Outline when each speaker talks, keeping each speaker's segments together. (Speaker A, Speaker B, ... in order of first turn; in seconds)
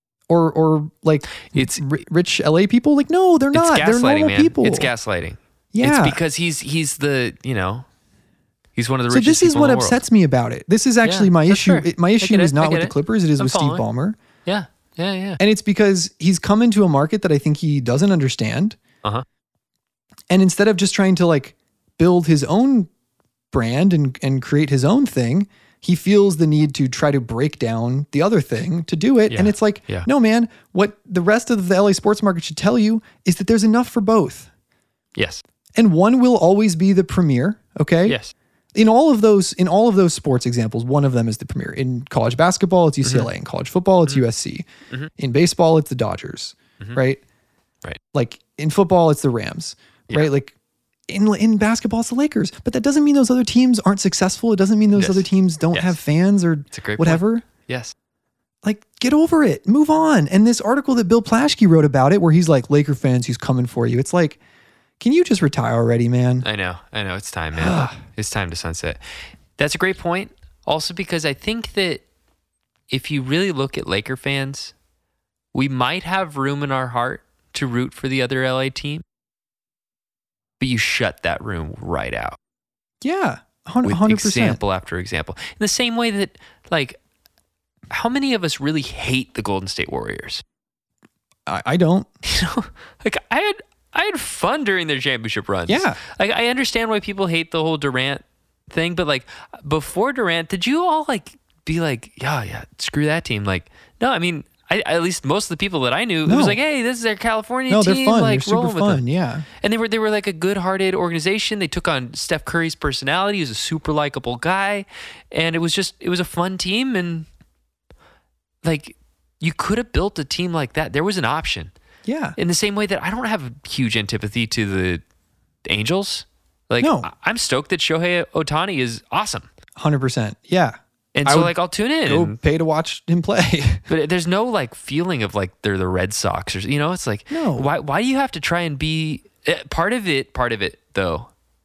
Speaker A: 0.3-4.9, 5.7-6.2, 9.1-14.2, 15.4-18.8, 20.3-22.9, 23.5-34.5, 35.8-38.2, 38.7-47.2, 48.1-50.5, 51.1-57.5, 58.6-64.4, 65.0-66.5, 67.5-68.0, 83.0-84.6, 91.5-92.1, 95.7-96.0, 106.2-106.6, 107.7-109.5, 122.0-122.4, 126.8-127.1, 129.8-133.8, 137.3-137.7
Speaker B: 1.5-1.8, 3.5-7.8, 8.8-10.0, 11.0-13.8, 14.4-15.4, 29.3-30.1, 35.1-35.4, 38.0-38.3, 43.0-43.3, 54.9-56.0, 56.7-57.9, 66.4-69.0, 69.6-72.0, 72.9-74.7, 75.5-79.0, 80.6-82.4, 83.8-87.0, 87.9-90.4, 92.2-109.0, 109.6-117.3, 118.6-121.7, 122.4-125.0, 125.6-129.5, 131.1-132.4, 133.9-141.3